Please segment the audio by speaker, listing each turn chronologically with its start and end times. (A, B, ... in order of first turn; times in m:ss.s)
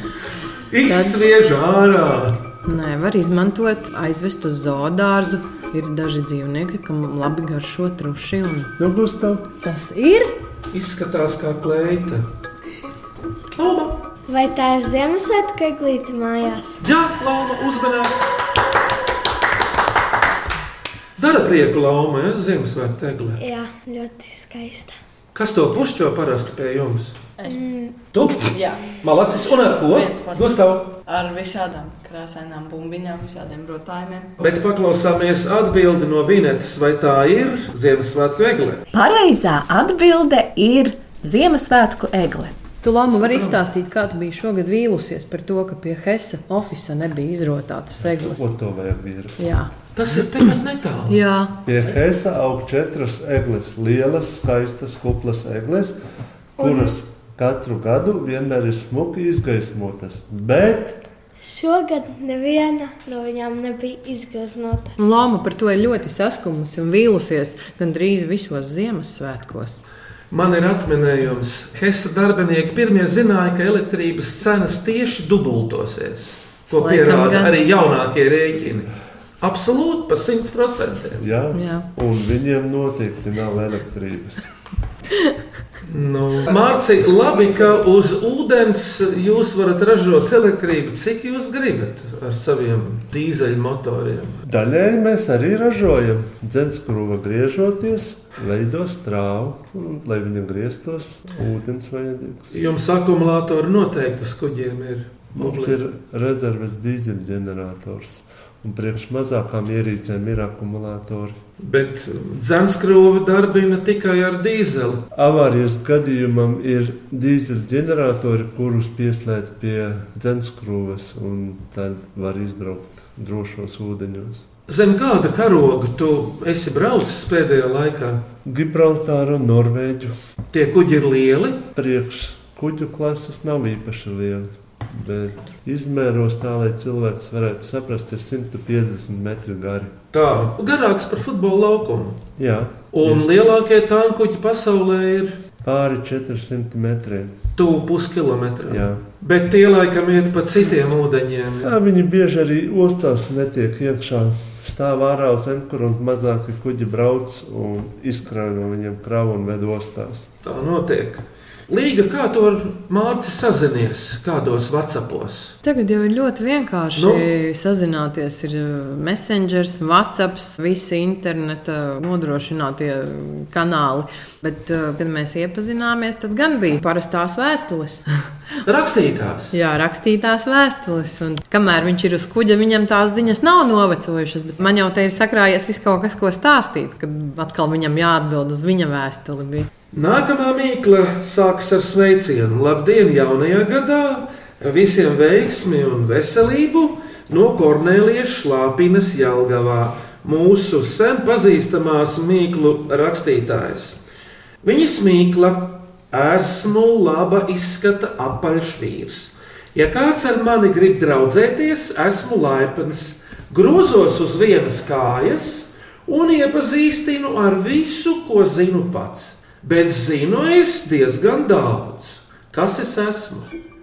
0:00.7-0:02.4 A
0:00.9-0:01.2 B
0:02.6-0:08.7 B
0:08.8-0:09.5 C
0:09.6-0:10.4 B
0:10.7-0:12.2 A
0:13.5-0:14.0 A
0:14.3-0:16.8 D
0:16.8-0:18.4 A
0:21.2-0:23.4 A
0:23.4-0:25.0 D
0:25.3-0:27.2 A
0:27.4-0:27.9 D
0:28.1-0:30.9 A
0:28.5-0:28.9 E
0:29.9-0:34.4 E
0:34.4-0:38.8 A
0:38.9-0:42.5 F
0:42.8-0:48.4 B
0:48.0-0:49.4 C
0:49.4-0:49.7 B
0:50.0-0:51.2 A
0:51.1-0:51.5 B
0:51.6-0:56.0 C
0:56.6-1:01.0 C
0:56.6-0:56.9 D
1:01.4-1:04.9 D
1:05.0-1:09.8 B
1:10.3-1:21.2 A
1:16.8-1:17.5 B
1:21.2-1:24.5 C
1:21.5-1:21.8 B
1:25.8-1:34.4 A
1:34.4-1:42.6 C
1:42.5-1:45.8 A
1:45.3-1:51.4 C
1:51.6-1:55.0 A
1:55.1-2:04.4 C
2:04.7-2:08.2 A
2:08.4-2:10.1 C
2:10.5-2:11.6 A
2:11.7-2:19.9 C
2:20.1-2:22.2 A
2:22.4-2:23.2 C
2:22.9-2:25.4 A
2:25.6-2:27.4 C
2:27.6-2:31.7 A
2:28.6-2:29.0 C
2:31.6-2:40.3 C
2:40.4-2:45.6 A
2:45.6-2:58.0 B
2:47.0-2:47.2 A
2:58.6-2:59.5 A
2:59.5-3:09.7 B
3:09.9-3:24.0 A
3:24.6-3:43.5 A